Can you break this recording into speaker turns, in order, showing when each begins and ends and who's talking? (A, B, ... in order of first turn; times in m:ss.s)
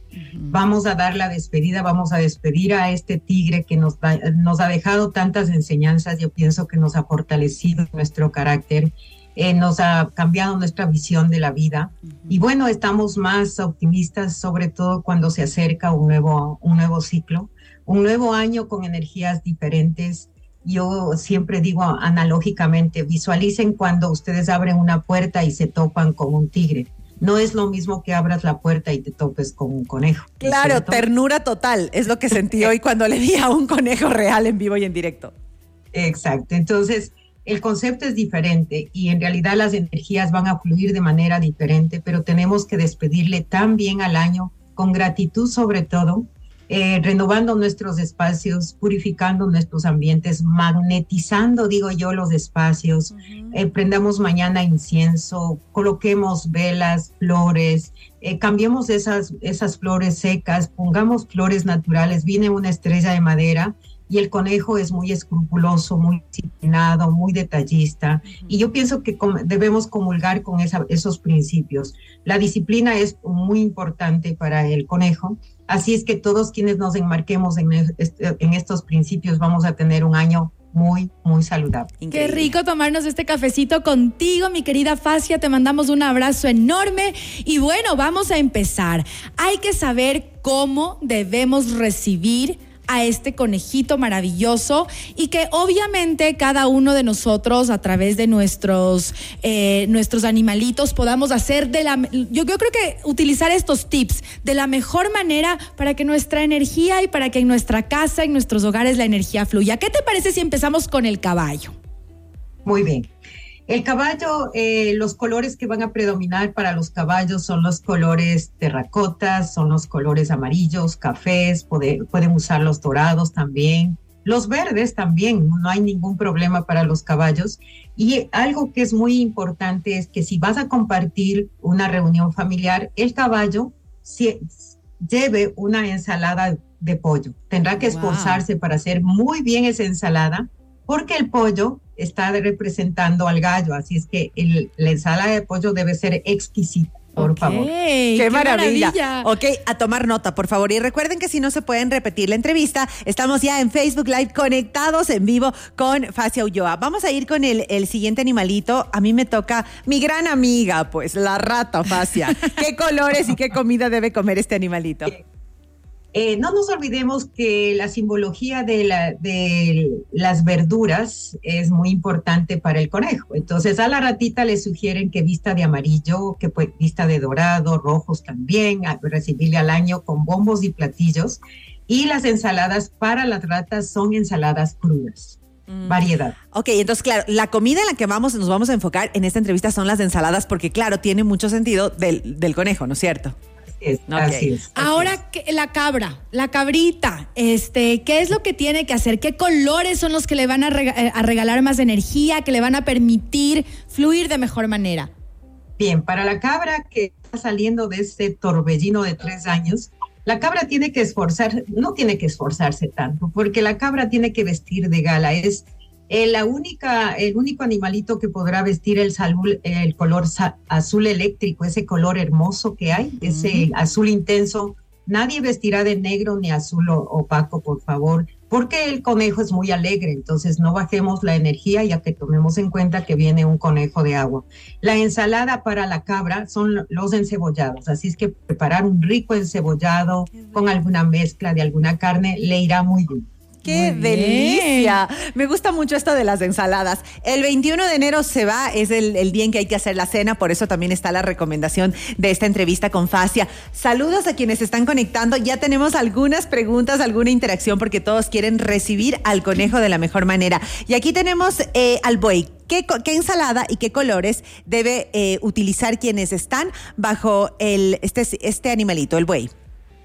0:00.2-0:00.6 A
0:00.5-0:31.0 B
0:30.4-0:35.3 C
0:35.9-1:22.0 B
0:53.1-0:53.6 C
1:08.3-1:08.6 C
1:22.0-1:22.5 C
1:22.1-1:51.7 A
1:52.6-1:53.1 B
1:53.7-2:27.7 B
2:17.8-2:18.4 A
2:27.2-2:29.3 A
2:28.2-2:45.2 C
2:46.1-3:06.4 B
3:05.7-3:13.3 C
3:13.7-3:15.2 B
3:14.1-3:14.5 C
3:14.7-3:25.1 A
3:25.8-4:03.3 B
3:43.2-3:43.7 A
4:03.6-4:29.5 C
4:03.7-4:05.0 A